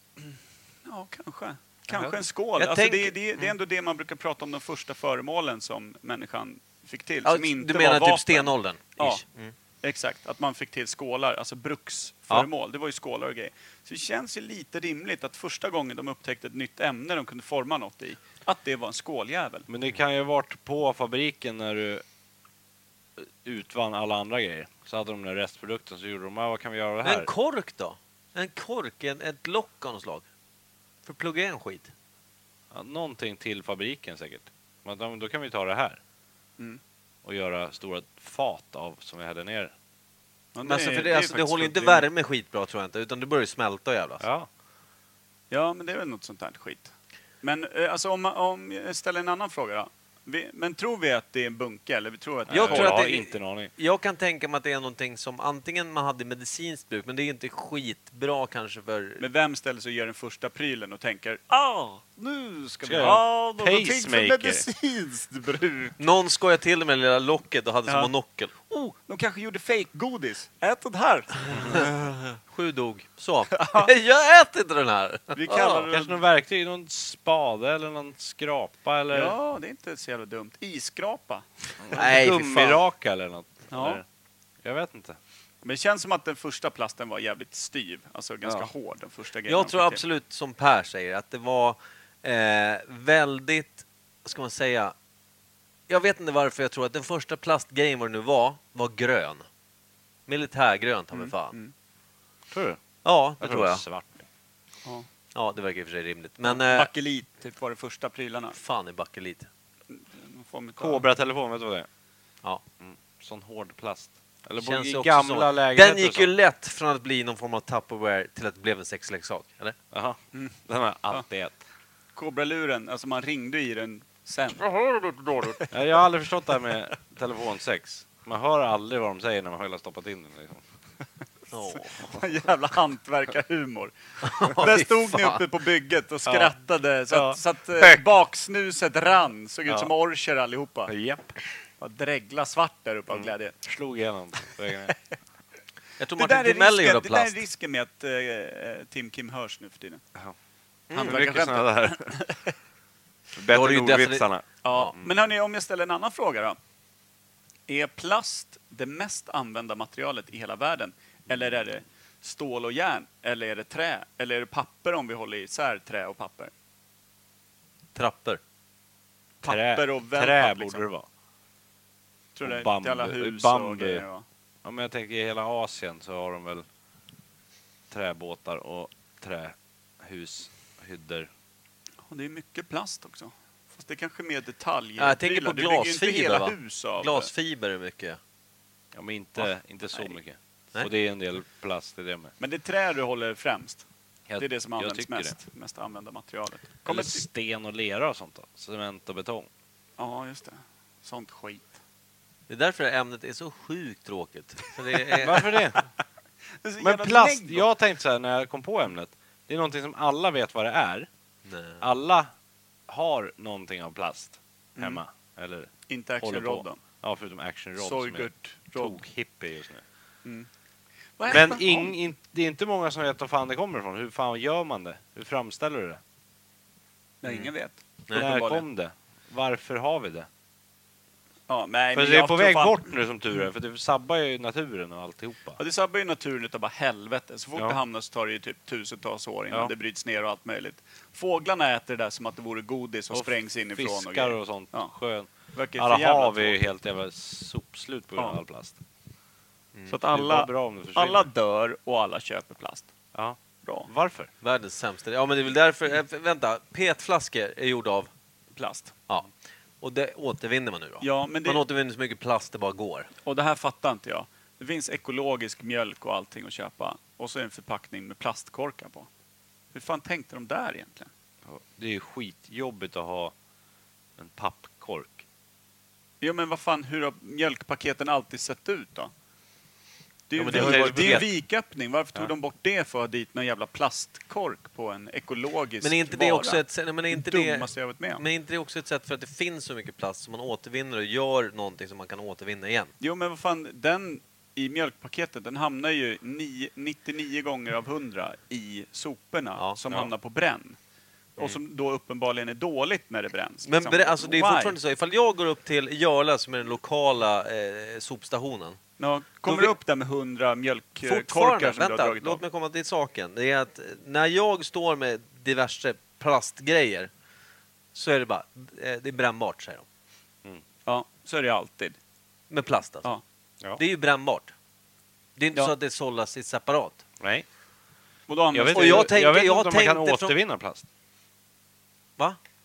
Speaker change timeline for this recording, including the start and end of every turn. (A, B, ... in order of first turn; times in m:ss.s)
0:00.8-0:09.2 A
0:01.9-0:02.1 B
0:02.6-0:03.2 C
0:07.2-0:09.5 C
0:09.8-0:19.7 A
0:19.7-0:22.0 B
0:23.2-0:27.3 B
0:27.0-0:30.2 C
0:31.0-0:31.9 C
0:32.7-0:36.0 B
0:37.2-0:39.7 B
0:40.5-0:42.0 A
0:40.6-0:44.2 C
0:44.2-0:44.5 B
0:45.5-0:53.0 A
0:52.5-0:53.7 B
0:52.5-0:59.2 C
0:59.2-1:06.0 A
1:02.8-1:04.6 B
1:06.0-1:08.5 C
1:07.9-1:11.9 A
1:11.6-1:15.8 C
1:13.6-1:13.9 A
1:15.3-1:16.2 A
1:15.9-1:19.4 B
1:19.1-1:21.5 A
1:21.8-1:24.0 B
1:21.9-1:22.8 C
1:23.7-1:24.0 A
1:24.6-1:25.2 B
1:25.6-1:30.0 A
1:28.4-1:28.7 B
1:29.5-1:34.9 C
1:35.9-1:39.5 C
1:40.3-1:41.6 C
1:41.1-1:41.7 A
1:42.5-1:42.8 B
1:43.0-1:43.8 C
1:43.4-1:44.2 B
1:45.3-1:46.9 C
1:46.4-1:48.6 A
1:48.5-1:49.5 C
1:49.9-1:51.1 A
1:50.8-1:51.9 B
1:52.8-1:56.3 B
1:54.6-1:59.8 C
1:59.9-2:01.6 B
2:02.1-2:05.7 A
2:05.7-2:10.6 B
2:11.5-2:12.1 C
2:11.7-2:20.9 A
2:14.2-2:15.4 C
2:16.2-2:16.5 B
2:17.1-2:18.0 B
2:19.7-2:19.9 B
2:20.9-2:21.3 B
2:21.8-2:23.6 A
2:23.1-2:24.9 B
2:26.0-2:27.4 C
2:26.2-2:30.0 A
2:30.9-2:31.2 C
2:30.9-2:32.2 B
2:30.9-2:32.4 A
2:33.3-2:35.1 B
2:33.5-2:34.9 C
2:34.6-2:36.6 A
2:37.7-2:46.5 A
2:47.9-2:48.4 C
2:49.4-2:50.8 A
2:49.4-2:51.1 B
2:52.3-2:54.2 A
2:52.4-2:54.0 B
2:54.6-2:56.6 B
2:57.9-3:01.3 B
3:02.1-3:07.3 A
3:05.0-3:08.2 C
3:08.9-3:12.3 B
3:09.4-3:10.1 A
3:12.4-3:13.8 A
3:14.3-3:15.4 B
3:14.4-3:17.2 A
3:16.8-3:19.5 B
3:20.0-3:21.8 A
3:22.5-3:25.5 C
3:25.1-3:25.4 A
3:25.2-3:25.8 B
3:26.6-3:27.6 A
3:26.8-3:31.1 B
3:31.4-3:31.8 C
3:31.8-3:32.3 B
3:32.9-3:39.8 B
3:34.8-3:35.0 A
3:35.9-3:36.8 A
3:37.8-3:39.0 A
3:41.2-3:41.9 A
3:41.3-3:46.0 B
3:47.2-3:48.6 A
3:48.1-3:50.3 B
3:51.5-3:52.8 A
3:51.9-3:55.6 B
3:55.6-4:04.9 A
4:03.1-4:08.8 B
4:05.5-4:06.6 A
4:09.9-4:12.9 A
4:10.1-4:11.3 B
4:13.1-4:14.3 B
4:13.6-4:13.9 A
4:14.4-4:18.1 C
4:18.5-4:19.0 A
4:19.8-4:23.1 C
4:21.0-4:21.6 A
4:23.2-4:29.1 A
4:29.7-4:31.1 A
4:31.4-4:33.3 B
4:34.2-4:35.2 B
4:36.2-4:39.1 A
4:40.3-4:48.2 A
4:40.3-4:41.3 C
4:40.4-4:41.3 B
4:45.8-4:52.9 C
4:53.0-5:00.8 A
5:01.4-5:04.8 A
5:03.6-5:08.8 C
5:09.0-5:12.4 A
5:09.4-5:09.7 C
5:11.0-5:17.1 C
5:17.9-5:19.8 C
5:20.8-5:22.0 A
5:22.5-5:23.1 C
5:23.8-5:24.5 C
5:25.4-5:27.0 C
5:27.2-5:27.4 B
5:28.3-5:29.1 A
5:28.5-5:30.8 B
5:28.7-5:30.4 C